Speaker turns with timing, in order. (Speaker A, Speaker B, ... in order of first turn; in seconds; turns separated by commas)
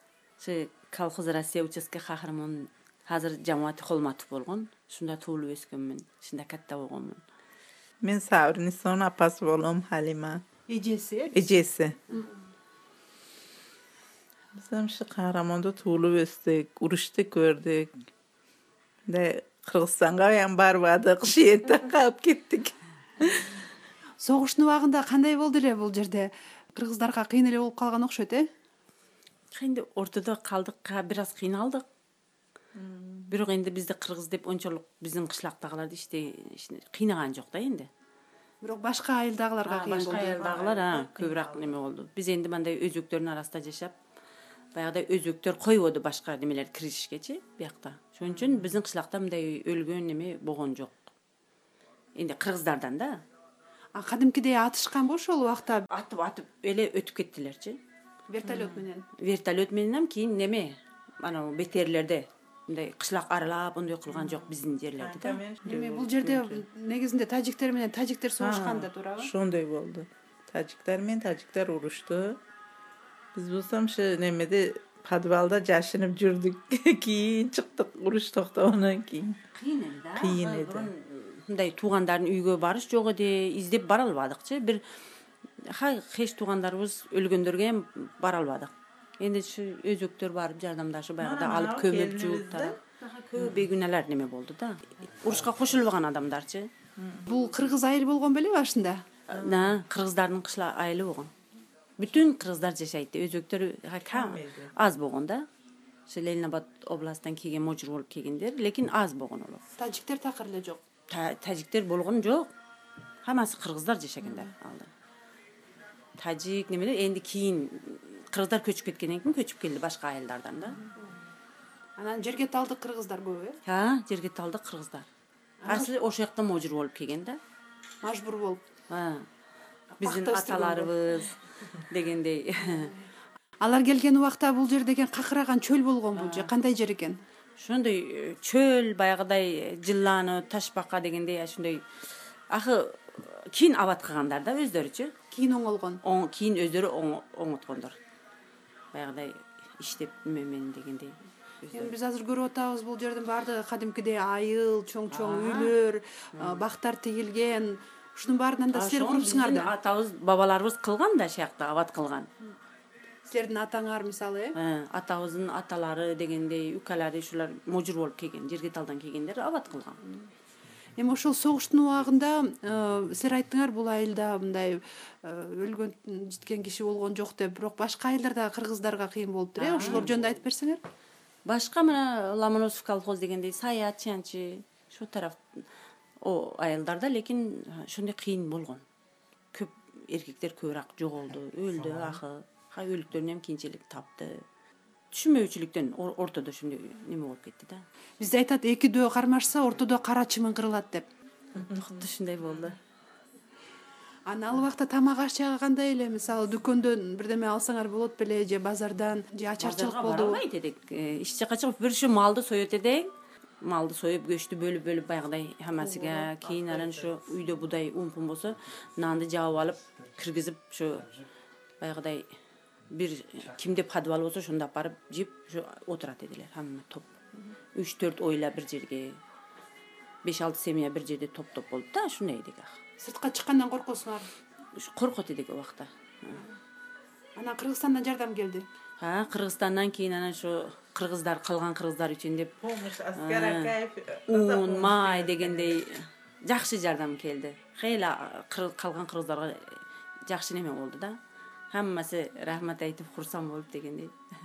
Speaker A: 0.4-7.2, Speaker B: 8.0-10.4, Speaker C: 10.7-11.4, Speaker B: 11.3-12.0, Speaker B: 14.6-17.9, Speaker B: 19.1-23.6, Speaker C: 24.2-28.4, Speaker A: 29.5-31.9, Speaker B: 32.8-33.2, Speaker A: 33.3-37.9, Speaker C: 38.6-40.5, Speaker A: 39.6-44.0, Speaker B: 40.0-41.8, Speaker A: 44.7-51.1, Speaker A: 52.1-53.2, Speaker C: 54.0-55.9, Speaker A: 55.9-57.8, Speaker C: 58.3-59.0, Speaker A: 58.5-65.4, Speaker B: 64.1-66.2, Speaker C: 65.6-69.3, Speaker A: 66.2-66.6, Speaker B: 68.4-72.4, Speaker B: 73.3-79.4, Speaker A: 79.5-84.8, Speaker B: 80.1-80.9, Speaker A: 85.6-96.7, Speaker B: 91.2-92.7, Speaker B: 97.0-97.3, Speaker C: 97.3-99.0, Speaker A: 99.3-101.3, Speaker B: 99.3-99.8, Speaker A: 102.0-105.4, Speaker B: 104.1-104.7, Speaker A: 106.1-109.6, Speaker C: 109.8-110.8, Speaker A: 111.1-112.5, Speaker A: 113.2-114.9, Speaker A: 116.2-120.8, Speaker C: 122.0-123.6, Speaker A: 123.6-125.1, Speaker C: 125.6-125.9, Speaker A: 125.7-127.4, Speaker C: 128.0-128.6, Speaker A: 128.9-129.2, Speaker A: 130.0-132.9, Speaker C: 130.0-130.9, Speaker C: 133.6-137.2, Speaker A: 136.1-136.5, Speaker A: 137.6-141.8, Speaker A: 142.5-145.1, Speaker C: 145.3-146.0, Speaker A: 146.0-147.9, Speaker A: 148.9-151.9, Speaker C: 151.7-159.7, Speaker A: 155.1-155.7, Speaker A: 156.3-156.6, Speaker A: 158.7-162.3, Speaker C: 163.2-164.5, Speaker A: 164.5-170.0, Speaker C: 171.0-180.8, Speaker A: 179.6-180.1, Speaker A: 181.4-185.7, Speaker A: 186.2-188.8, Speaker A: 189.5-194.4, Speaker B: 191.9-192.2, Speaker A: 195.1-197.8, Speaker C: 198.2-201.1, Speaker B: 201.6-202.1, Speaker A: 201.7-202.8, Speaker C: 204.3-210.4, Speaker A: 209.6-213.1, Speaker A: 213.6-221.1, Speaker B: 215.9-217.1, Speaker A: 221.8-222.3, Speaker A: 222.9-227.1, Speaker A: 227.7-229.2, Speaker A: 230.2-232.8, Speaker C: 233.0-234.3, Speaker A: 234.7-236.4, Speaker C: 237.4-238.6, Speaker A: 239.0-242.5, Speaker B: 242.6-245.8, Speaker A: 243.1-243.8, Speaker A: 244.3-251.2, Speaker A: 251.7-254.1